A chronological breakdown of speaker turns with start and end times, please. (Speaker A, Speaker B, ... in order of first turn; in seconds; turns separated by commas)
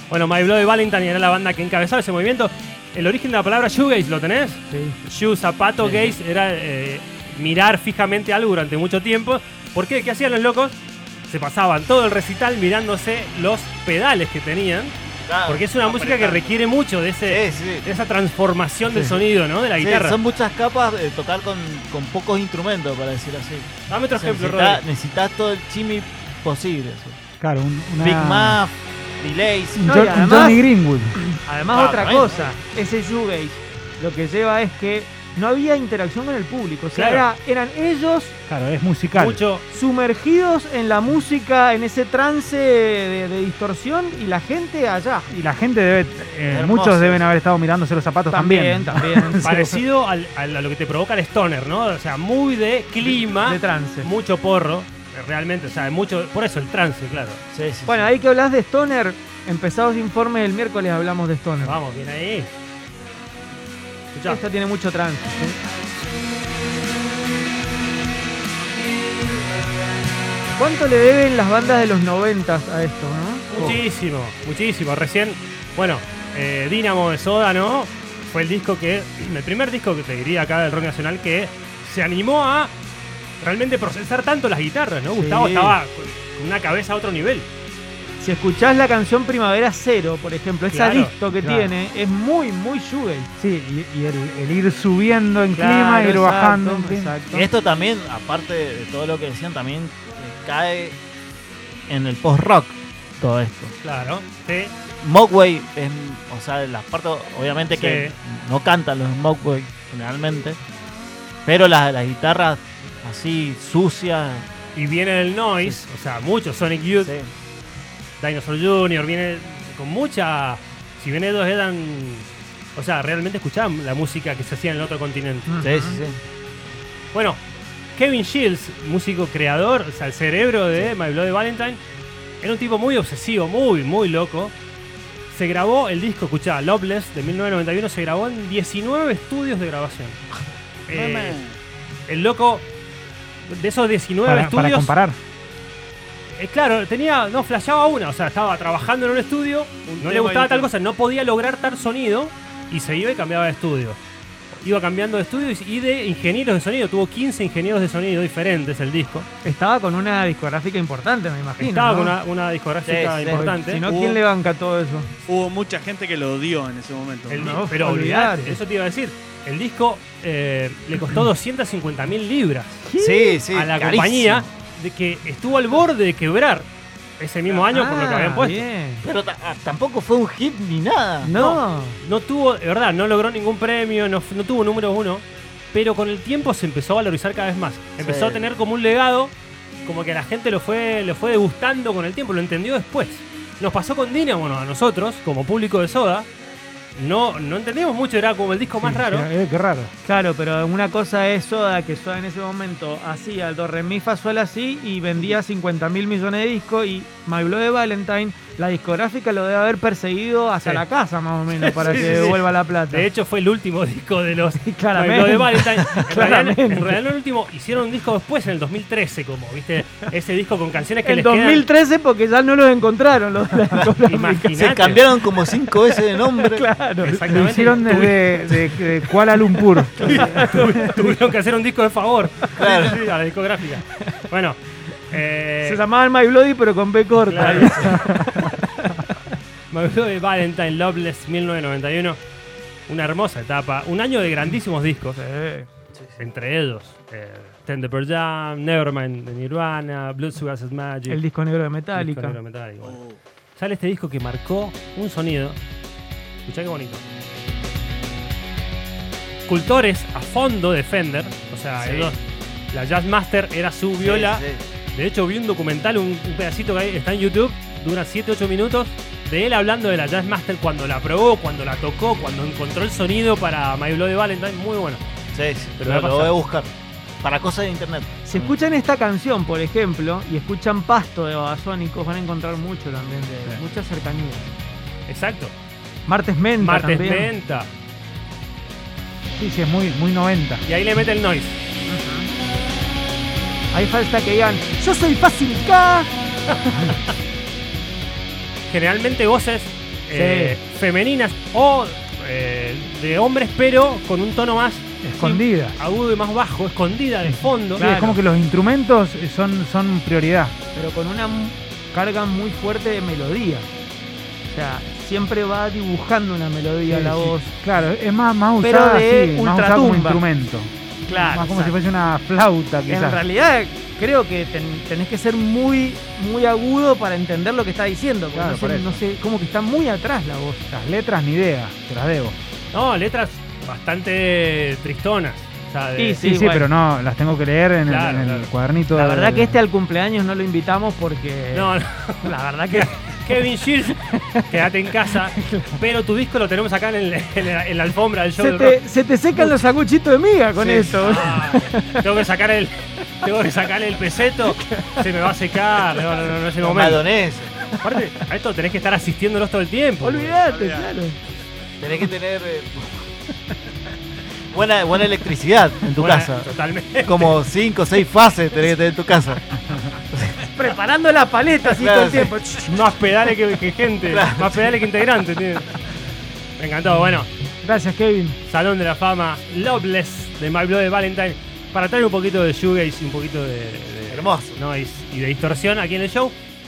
Speaker A: 0.1-10.8, Speaker B: 4.7-5.0, Speaker A: 11.3-20.2, Speaker C: 15.2-16.5, Speaker C: 17.3-17.9, Speaker B: 18.9-19.2, Speaker C: 19.8-27.2, Speaker A: 23.9-24.8, Speaker D: 27.4-28.6, Speaker C: 28.0-29.9, Speaker D: 29.8-31.2, Speaker B: 29.8-30.6, Speaker B: 31.2-38.4, Speaker C: 31.7-32.5, Speaker A: 36.9-37.3, Speaker D: 38.5-39.4, Speaker A: 39.1-39.6, Speaker B: 39.7-45.3, Speaker D: 45.3-49.8, Speaker C: 46.5-47.2, Speaker B: 48.3-49.6, Speaker A: 49.4-57.4, Speaker B: 53.1-54.1, Speaker C: 57.5-58.1, Speaker B: 57.9-61.8, Speaker A: 61.6-62.5, Speaker A: 64.1-64.4, Speaker B: 64.3-65.6, Speaker B: 70.6-73.8, Speaker A: 73.5-82.7, Speaker A: 83.4-87.5, Speaker B: 85.1-85.8, Speaker B: 88.2-93.3, Speaker A: 90.7-91.1, Speaker D: 91.4-91.7, Speaker D: 93.4-97.2, Speaker B: 95.5-97.5, Speaker C: 97.3-101.0, Speaker C: 101.9-103.7, Speaker A: 103.8-104.7, Speaker C: 105.0-110.6, Speaker A: 107.7-108.2, Speaker C: 111.5-114.5, Speaker A: 114.8-117.2, Speaker C: 117.0-117.3, Speaker A: 118.2-125.5, Speaker B: 125.5-126.0, Speaker C: 125.6-126.2, Speaker A: 127.1-127.4, Speaker A: 128.0-131.8, Speaker A: 132.4-134.5, Speaker A: 135.3-140.2, Speaker A: 140.9-141.4, Speaker A: 142.1-142.7, Speaker A: 143.5-144.9, Speaker D: 144.2-145.2, Speaker A: 146.3-154.0, Speaker B: 150.0-150.7, Speaker A: 154.6-159.3, Speaker B: 159.4-162.2, Speaker A: 161.6-163.8, Speaker C: 162.8-163.5, Speaker B: 163.3-165.1, Speaker E: 163.8-164.2, Speaker E: 165.3-167.7, Speaker A: 167.3-172.9, Speaker B: 167.4-168.6, Speaker B: 172.9-173.4, Speaker C: 173.0-174.4, Speaker A: 173.5-176.7, Speaker A: 177.2-178.7, Speaker B: 177.6-179.0, Speaker C: 179.0-181.3, Speaker B: 181.2-182.0, Speaker A: 181.3-189.3, Speaker C: 188.0-188.4, Speaker A: 189.8-196.3, Speaker A: 196.9-199.3, Speaker D: 198.8-199.9, Speaker B: 200.1-213.1, Speaker A: 211.5-221.7, Speaker B: 214.6-217.0, Speaker B: 221.0-224.6, Speaker A: 224.0-225.0, Speaker C: 224.5-226.7, Speaker B: 225.3-228.1, Speaker A: 227.0-228.3, Speaker D: 227.3-230.4, Speaker B: 229.2-231.1, Speaker A: 230.0-235.8, Speaker C: 232.6-233.0, Speaker B: 235.6-239.0, Speaker A: 237.3-238.1, Speaker A: 239.7-242.2, Speaker A: 242.9-245.2, Speaker B: 245.2-245.7, Speaker A: 246.2-251.2, Speaker B: 251.1-252.4, Speaker A: 251.9-253.0, Speaker A: 253.6-255.6, Speaker A: 256.4-257.0, Speaker A: 259.5-262.2, Speaker C: 261.8-262.1, Speaker A: 262.7-275.0, Speaker C: 264.0-264.6, Speaker C: 275.3-278.5, Speaker A: 275.8-276.4, Speaker B: 278.3-284.5, Speaker A: 285.1-285.5, Speaker B: 286.1-287.3, Speaker A: 286.6-287.7, Speaker D: 289.4-290.6, Speaker A: 290.6-291.6, Speaker B: 293.7-296.1, Speaker A: 298.7-307.9, Speaker B: 300.1-300.6, Speaker D: 305.0-305.8, Speaker D: 307.8-310.6, Speaker B: 307.8-308.2, Speaker B: 310.8-313.7, Speaker B: 314.5-317.5, Speaker D: 316.9-323.2, Speaker B: 318.6-320.2, Speaker B: 321.1-321.8, Speaker B: 322.9-330.6, Speaker D: 328.3-329.0, Speaker D: 330.7-332.4, Speaker A: 332.7-336.2, Speaker B: 336.0-336.7, Speaker D: 336.2-339.6, Speaker A: 337.9-338.5, Speaker B: 338.9-343.2, Speaker A: 341.5-348.8, Speaker B: 344.0-345.8, Speaker B: 348.4-352.1, Speaker C: 350.6-351.4, Speaker A: 351.0-357.0, Speaker B: 354.5-355.1, Speaker C: 356.6-357.5, Speaker A: 357.8-360.4, Speaker B: 360.0-361.2, Speaker C: 361.8-363.1, Speaker C: 364.5-366.5, Speaker A: 366.0-367.3, Speaker C: 367.1-370.4, Speaker B: 370.5-372.8, Speaker C: 371.7-372.3, Speaker A: 372.7-375.8, Speaker C: 374.1-374.6, Speaker A: 376.6-377.3, Speaker B: 377.6-378.4, Speaker A: 378.5-386.4, Speaker C: 384.1-384.6